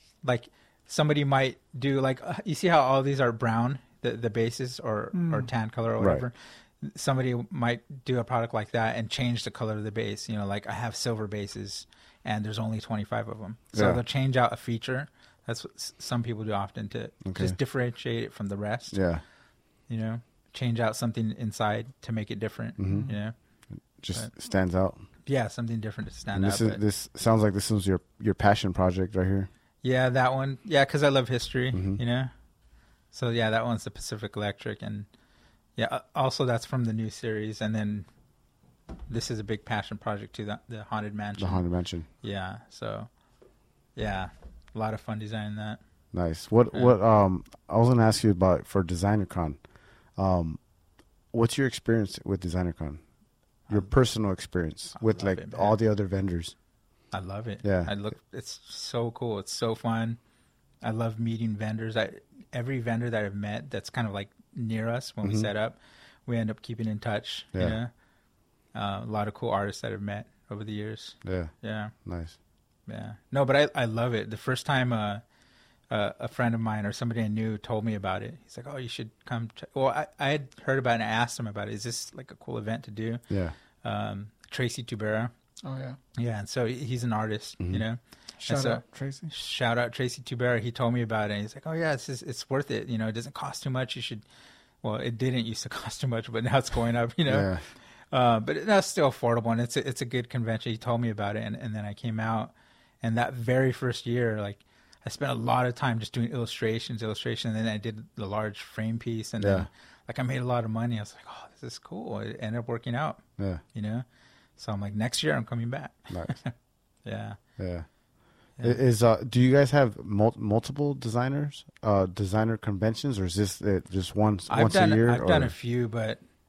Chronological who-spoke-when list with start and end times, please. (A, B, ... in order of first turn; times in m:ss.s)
0:00.2-0:19.0 A
0:05.1-0:05.5 B
0:06.0-0:06.2 C
0:13.7-0:14.0 C
0:17.2-0:17.6 C
0:18.9-0:19.2 C
0:19.9-0:23.3 A
0:22.8-0:23.1 C
0:22.8-0:23.2 B
0:24.0-0:25.0 C
0:25.3-0:26.8 A
0:26.3-0:29.5 C
0:29.8-0:32.3 A
0:31.7-0:32.0 C
0:33.1-0:35.1 A
0:35.8-0:38.1 A
0:39.1-0:41.6 A
0:41.4-0:42.1 C
0:42.2-0:43.1 A
0:44.0-0:45.8 A
0:46.1-0:49.6 C
0:50.2-0:50.6 C
0:51.3-0:53.0 C
0:53.7-0:56.5 C
0:55.0-0:55.8 A
0:57.1-1:00.2 A
0:57.6-0:57.9 C
1:00.8-1:07.9 A
1:05.2-1:05.5 C
1:08.7-1:11.9 A
1:11.2-1:11.5 C
1:12.0-1:12.4 C
1:12.9-1:15.2 A
1:15.9-1:23.2 A
1:23.3-1:23.6 C
1:23.8-1:25.3 A
1:25.6-1:26.0 B
1:26.2-1:34.2 A
1:28.4-1:29.3 B
1:34.8-1:37.5 A
1:37.3-1:37.6 C
1:38.1-1:53.2 A
1:49.4-1:49.7 C
1:53.7-1:54.0 A
1:54.6-1:56.5 A
1:57.0-1:57.4 A
1:57.6-1:57.9 C
1:58.6-2:05.5 C
2:04.5-2:06.2 A